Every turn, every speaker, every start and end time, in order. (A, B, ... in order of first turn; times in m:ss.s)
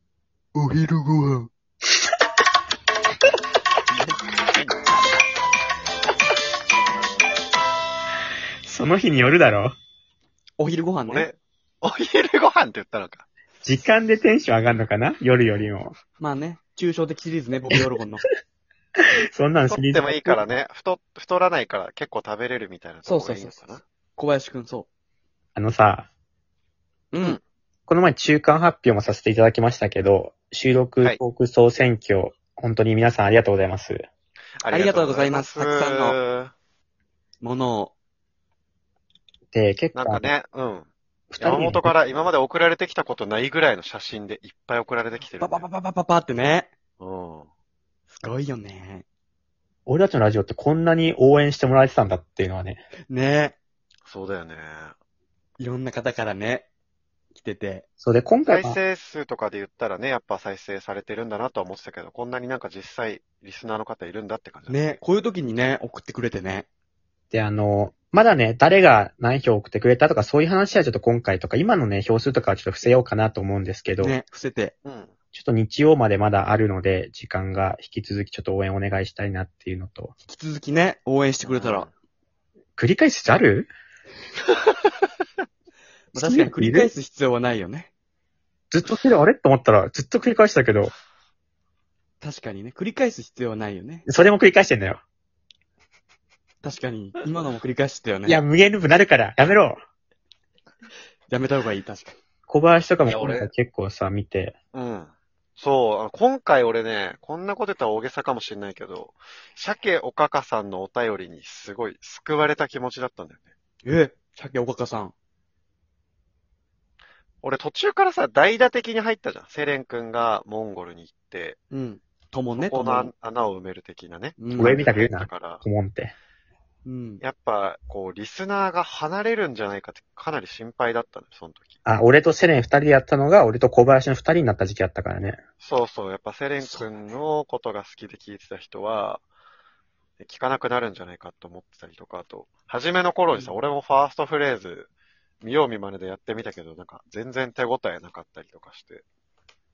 0:00.5-0:01.5 A
0:08.6-0:09.8 B
0:10.6-0:11.3 A
0:11.1-0:13.2 C
0:13.6-0:16.0 B
0:16.2-0:18.2 A
0:19.0-0:20.4 B
0:19.7-0:23.8 C
0:23.0-0:24.9 A
0:25.6-0:26.1 B
0:27.1-0:27.4 A
0:27.9-0:34.0 B
0:34.6-0:36.5 C
0:34.7-0:36.2 A
0:37.4-0:37.9 A
0:39.5-0:40.3 B
0:39.9-0:45.7 C
0:41.3-0:41.9 B
0:45.4-0:46.7 A
0:47.0-0:47.5 C
0:48.1-0:49.0 A
0:49.9-0:52.8 B
0:53.1-0:53.5 A
0:54.0-0:54.9 C
0:55.6-0:56.7 A
0:57.3-0:57.8 A
0:58.0-0:58.8 B
0:58.5-1:04.8 C
1:04.7-1:06.7 A
1:07.3-1:14.2 B
1:14.0-1:14.7 A
1:14.8-1:15.1 C
1:15.3-1:20.1 B
1:20.2-1:21.9 A
1:21.4-1:21.9 C
1:22.8-1:23.7 B
1:26.1-1:27.9 A
1:26.2-1:26.9 B
1:28.7-1:30.9 B
1:32.2-1:34.0 A
1:34.1-1:35.0 B
1:36.6-1:38.4 A
1:38.2-1:39.8 B
1:41.3-1:42.2 A
1:42.5-1:44.6 B
1:43.0-1:43.5 C
1:44.7-1:53.5 C
1:53.8-1:55.1 A
1:57.4-2:01.6 C
2:01.7-2:03.1 A
2:02.5-2:05.6 C
2:04.4-2:04.9 A
2:04.6-2:06.1 B
2:06.8-2:07.2 A
2:07.2-2:11.8 C
2:11.8-2:15.4 B
2:15.6-2:19.2 C
2:16.6-2:16.9 A
2:20.2-2:24.9 C
2:25.4-2:29.0 C